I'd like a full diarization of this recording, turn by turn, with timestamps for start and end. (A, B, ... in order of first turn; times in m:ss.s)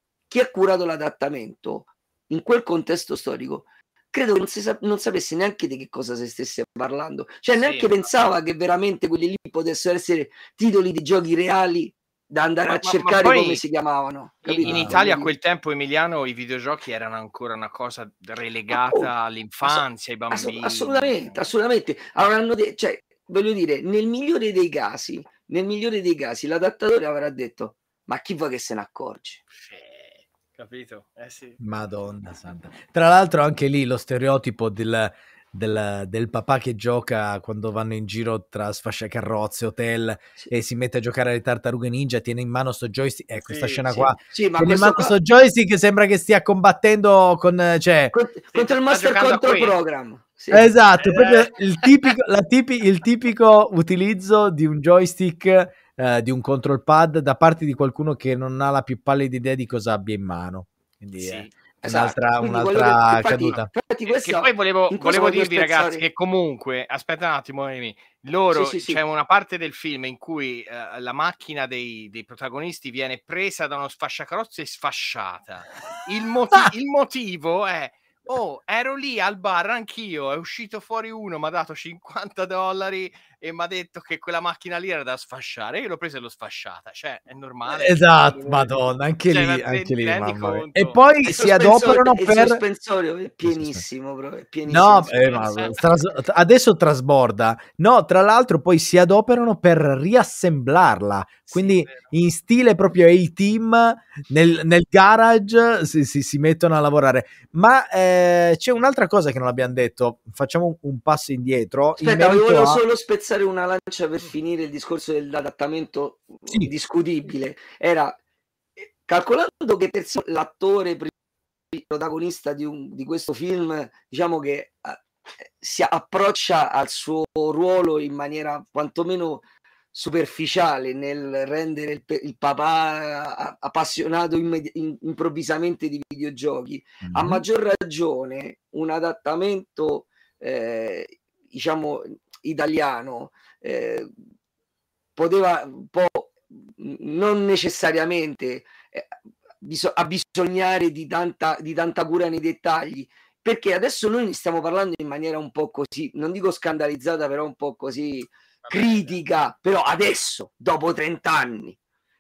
0:00.3-0:15.3 A
0:07.6-0:07.9 B
0:12.7-0:13.6 B
0:14.4-0:21.4 B
0:14.6-0:15.0 C
0:18.7-0:19.1 A
0:19.6-0:29.4 A
0:29.5-0:31.6 B
0:31.6-0:48.2 C
0:43.5-0:44.1 B
0:44.0-0:45.2 A
0:48.1-0:50.7 A
0:48.5-0:49.8 B
0:50.5-1:03.7 C
0:51.0-0:52.1 B
1:01.2-1:01.5 B
1:01.8-1:06.0 A
1:04.1-1:31.0 B
1:08.5-1:09.0 A
1:27.7-1:32.6 C
1:31.2-1:35.6 A
1:33.4-1:33.8 C
1:34.7-1:52.8 C
1:35.1-1:35.8 B
1:41.5-1:42.1 B
1:52.0-1:58.2 A
1:59.0-2:01.1 A
2:01.7-2:24.1 A
2:17.0-2:17.4 C
2:25.2-2:41.8 A
2:38.6-2:39.2 B